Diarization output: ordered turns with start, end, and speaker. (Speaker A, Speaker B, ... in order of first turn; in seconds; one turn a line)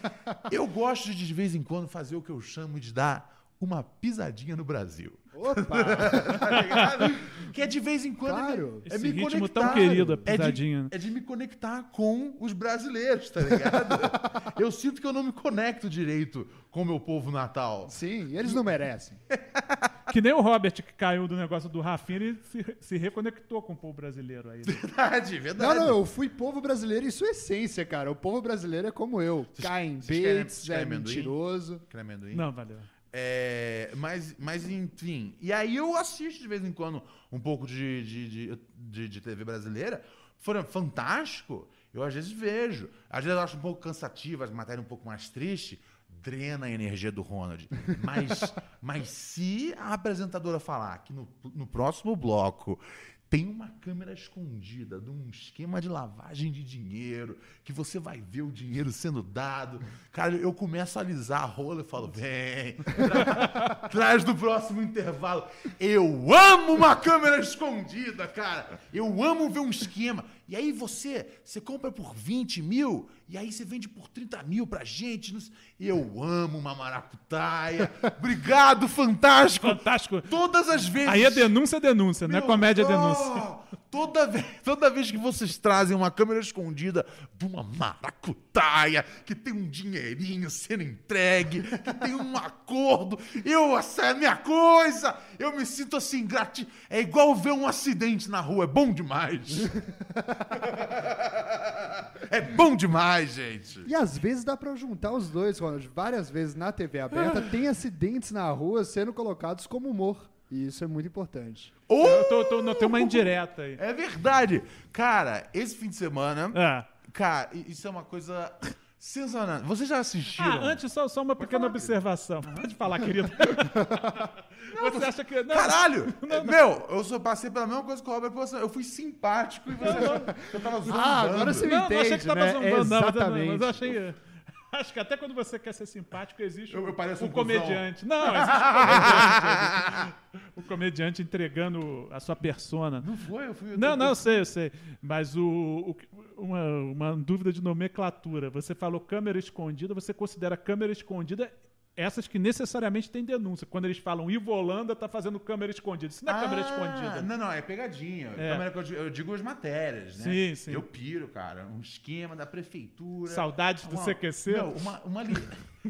Speaker A: 0.5-18.6
Speaker B: 5.3-6.5
Speaker B: 8.2-8.9
Speaker C: 8.9-10.9
Speaker B: 9.6-10.3
Speaker B: 17.9-19.2
Speaker A: 19.3-19.9
Speaker C: 20.1-24.8
Speaker A: 24.6-26.0
Speaker B: 25.6-31.8
Speaker A: 29.6-32.5
Speaker C: 32.3-32.9
Speaker A: 33.1-81.5
Speaker C: 79.6-80.3
Speaker C: 81.0-83.4
Speaker A: 82.3-99.8
Speaker B: 100.0-100.5
Speaker A: 100.6-103.9
Speaker B: 103.8-111.8
Speaker A: 107.1-107.5
Speaker A: 111.9-120.8
Speaker C: 112.0-113.8
Speaker C: 116.5-116.9
Speaker C: 120.4-126.6
Speaker A: 121.4-123.5
Speaker A: 124.7-131.7
Speaker C: 129.8-130.3
Speaker B: 130.3-133.9
Speaker C: 131.6-134.2
Speaker C: 134.7-143.1
Speaker A: 136.7-140.1
Speaker A: 143.0-144.4
Speaker C: 143.7-157.3
Speaker A: 156.3-165.6
Speaker C: 158.4-158.6
Speaker C: 160.2-160.8
Speaker C: 163.3-164.8